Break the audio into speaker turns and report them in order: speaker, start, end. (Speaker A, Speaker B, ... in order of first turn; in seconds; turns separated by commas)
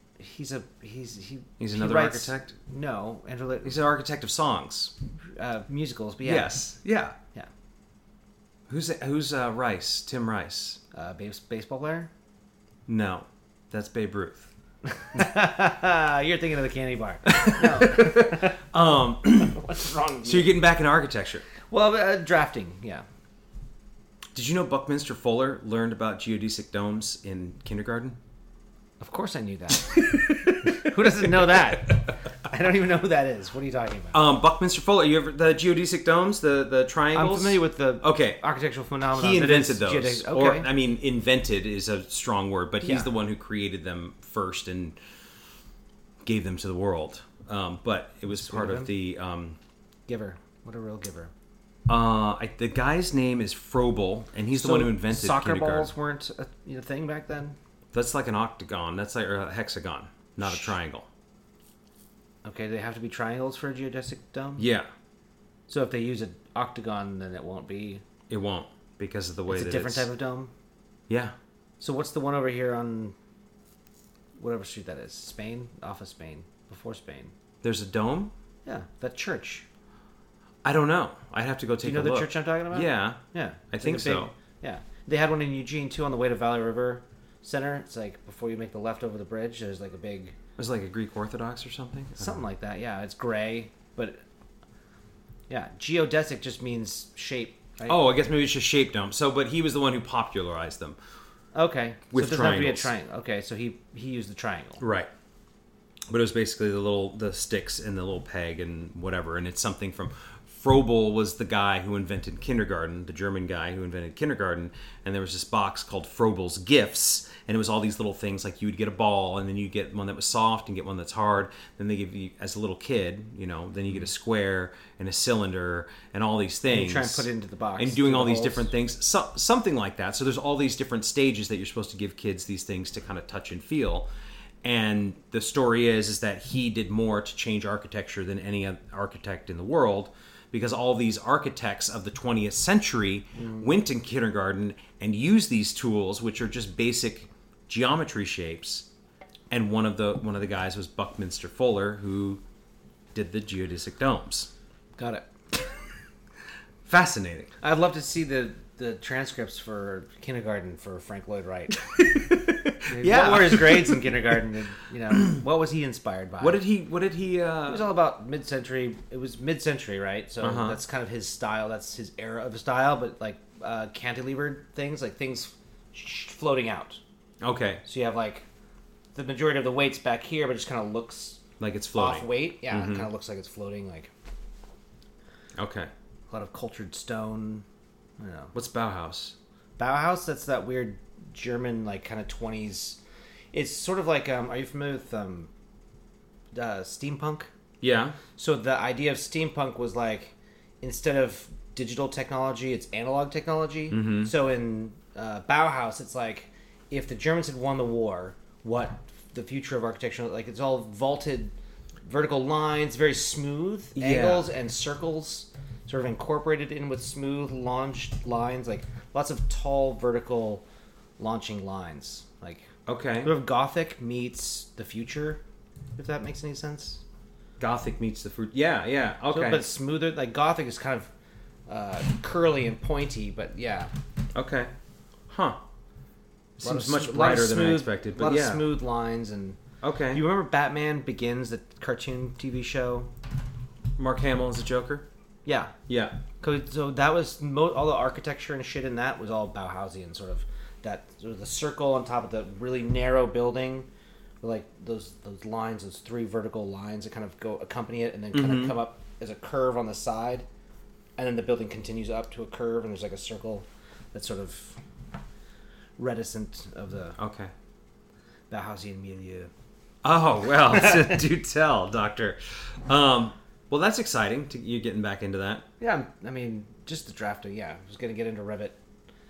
Speaker A: 0.2-3.8, Speaker B: 1.6-2.5, Speaker B: 3.6-4.9, Speaker A: 5.3-6.6, Speaker B: 6.2-7.2, Speaker B: 8.7-10.8, Speaker A: 10.9-12.1, Speaker B: 12.9-14.5, Speaker A: 14.9-18.6, Speaker B: 17.3-19.6, Speaker A: 19.4-20.6, Speaker B: 20.2-21.5, Speaker A: 21.6-23.1, Speaker B: 24.4-28.2, Speaker A: 29.0-34.2, Speaker B: 34.1-38.4, Speaker A: 37.1-40.7, Speaker B: 39.1-45.0, Speaker A: 42.8-43.1, Speaker B: 46.2-49.6, Speaker A: 48.3-48.9, Speaker A: 50.1-51.3, Speaker B: 51.9-55.9, Speaker A: 54.5-57.6, Speaker B: 57.9-61.1, Speaker A: 62.4-64.7, Speaker B: 64.6-64.9, Speaker A: 65.7-68.0, Speaker B: 68.3-70.1, Speaker A: 69.5-70.5, Speaker B: 71.1-71.3, Speaker A: 71.8-73.2, Speaker A: 74.4-77.3, Speaker B: 77.6-78.3, Speaker A: 78.7-79.7, Speaker B: 80.7-84.3, Speaker A: 81.8-90.4, Speaker B: 90.6-92.4, Speaker A: 92.2-94.2, Speaker A: 95.5-98.1, Speaker B: 97.9-101.0, Speaker A: 101.5-104.8, Speaker B: 102.1-102.9, Speaker B: 104.8-105.1, Speaker B: 106.1-134.1, Speaker A: 126.7-128.7, Speaker B: 134.6-148.9, Speaker A: 143.4-143.7, Speaker B: 149.5-152.4, Speaker B: 153.2-154.5, Speaker A: 155.0-155.3, Speaker B: 156.8-157.5, Speaker A: 157.6-161.8, Speaker B: 162.0-164.1, Speaker A: 162.9-166.6, Speaker B: 166.4-167.9, Speaker A: 167.7-177.0, Speaker B: 170.4-170.8, Speaker B: 177.4-177.8, Speaker A: 177.8-178.4, Speaker A: 179.1-181.4, Speaker B: 181.6-183.1, Speaker A: 181.9-184.1, Speaker B: 185.6-185.9, Speaker A: 186.3-187.7, Speaker A: 188.2-188.5, Speaker B: 188.5-189.4, Speaker A: 189.8-193.0, Speaker A: 193.5-195.5, Speaker A: 196.5-197.5, Speaker B: 197.8-198.2, Speaker A: 198.4-211.5, Speaker B: 203.9-204.3, Speaker A: 212.1-220.6, Speaker B: 214.0-214.5, Speaker A: 221.2-222.7, Speaker B: 222.9-223.3, Speaker A: 223.2-225.4, Speaker A: 226.0-227.0, Speaker B: 227.6-229.7, Speaker A: 229.3-231.1, Speaker A: 231.7-233.9, Speaker B: 234.3-234.7, Speaker B: 235.3-235.6, Speaker B: 236.6-238.7, Speaker A: 236.6-239.6, Speaker B: 239.8-240.2, Speaker A: 240.1-243.1, Speaker B: 244.0-245.1, Speaker A: 245.4-245.8, Speaker B: 245.9-246.2, Speaker A: 246.4-253.9, Speaker A: 254.4-260.5, Speaker B: 258.3-258.8, Speaker A: 261.2-264.8, Speaker A: 266.0-267.2, Speaker B: 267.2-267.5, Speaker A: 268.5-269.5, Speaker B: 270.0-275.7, Speaker A: 270.7-271.2, Speaker A: 275.8-278.8